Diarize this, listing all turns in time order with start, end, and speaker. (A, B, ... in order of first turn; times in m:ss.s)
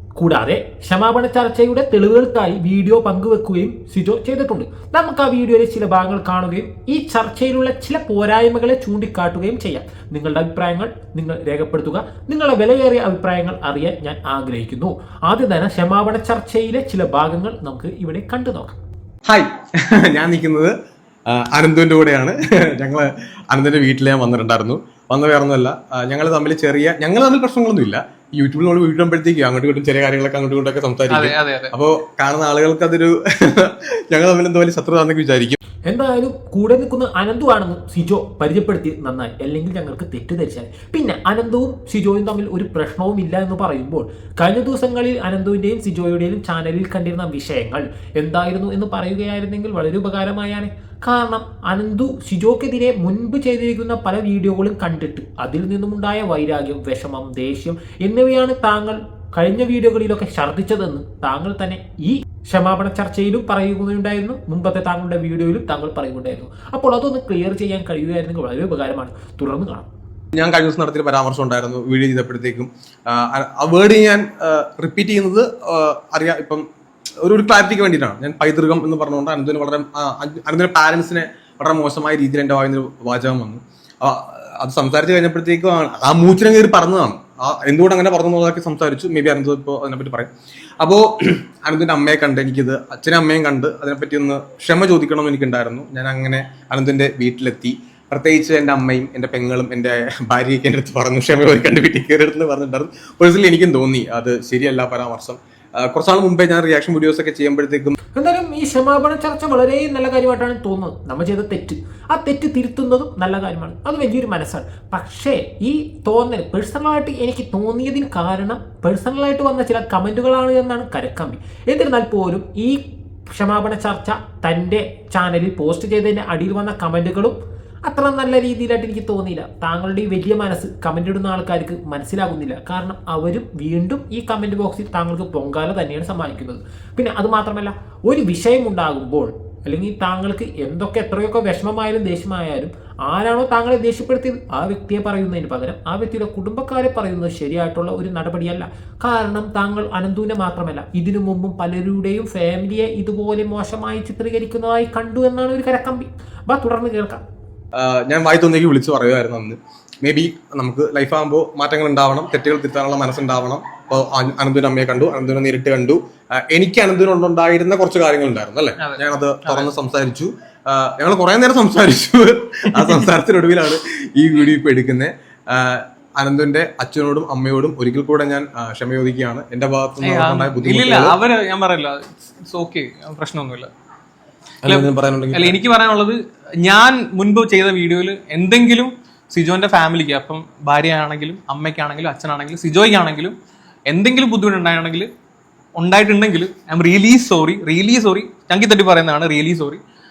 0:00.2-0:18.8 A
0:19.2-0:20.7 B
0:21.3-0:35.6 B
0:31.1-0:31.7 C
0:35.9-1:09.9 A
1:10.3-1:16.6 B
1:17.2-1:47.9 B
1:48.2-2:07.3 A
2:07.8-2:37.2 A
2:37.7-3:01.2 B
2:48.8-2:49.7 C
2:52.6-2:53.1 C
3:00.0-3:03.7 C
3:04.6-3:05.6 B
3:04.6-3:13.4 C
3:13.9-3:15.1 C
3:15.8-3:19.8 C